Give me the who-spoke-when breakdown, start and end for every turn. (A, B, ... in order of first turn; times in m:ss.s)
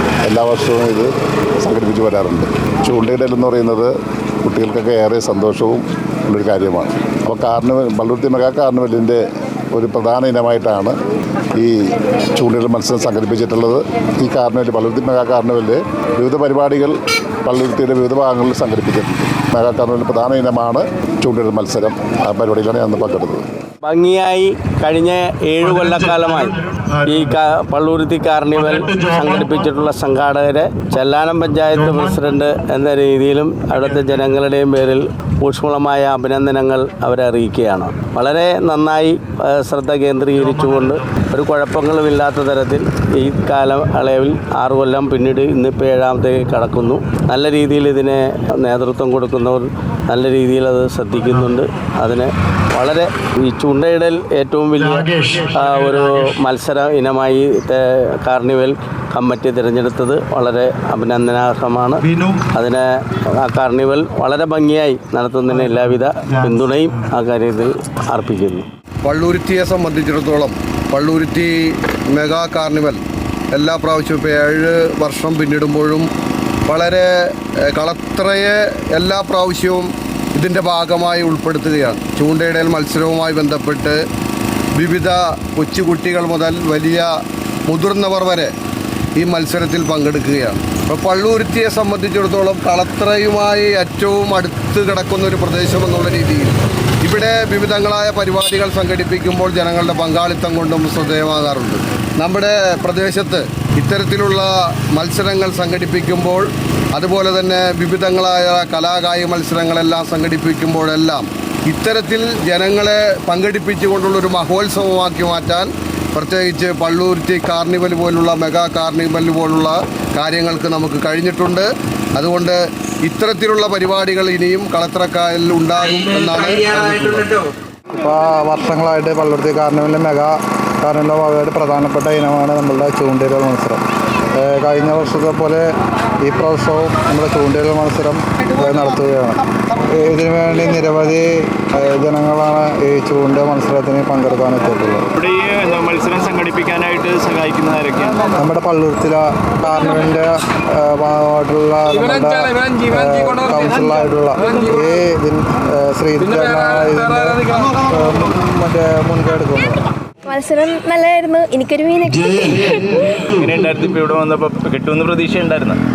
0:00.2-0:01.1 A
0:01.6-0:03.9 A
0:04.4-0:09.2 A
0:09.7-0:10.9 A
0:11.6-0:23.4 A
0:23.8-1:08.7 B
1:09.0-1:16.1 C
1:16.6-1:24.0 C
1:24.8-1:27.1 C
1:27.7-1:28.5 C
1:29.2-2:07.3 C
2:07.9-2:13.8 D
2:14.4-2:15.6 D
2:16.2-2:25.0 D
2:25.1-2:28.3 E
2:28.4-2:39.8 D
2:40.2-2:42.8 F
2:43.3-2:45.8 E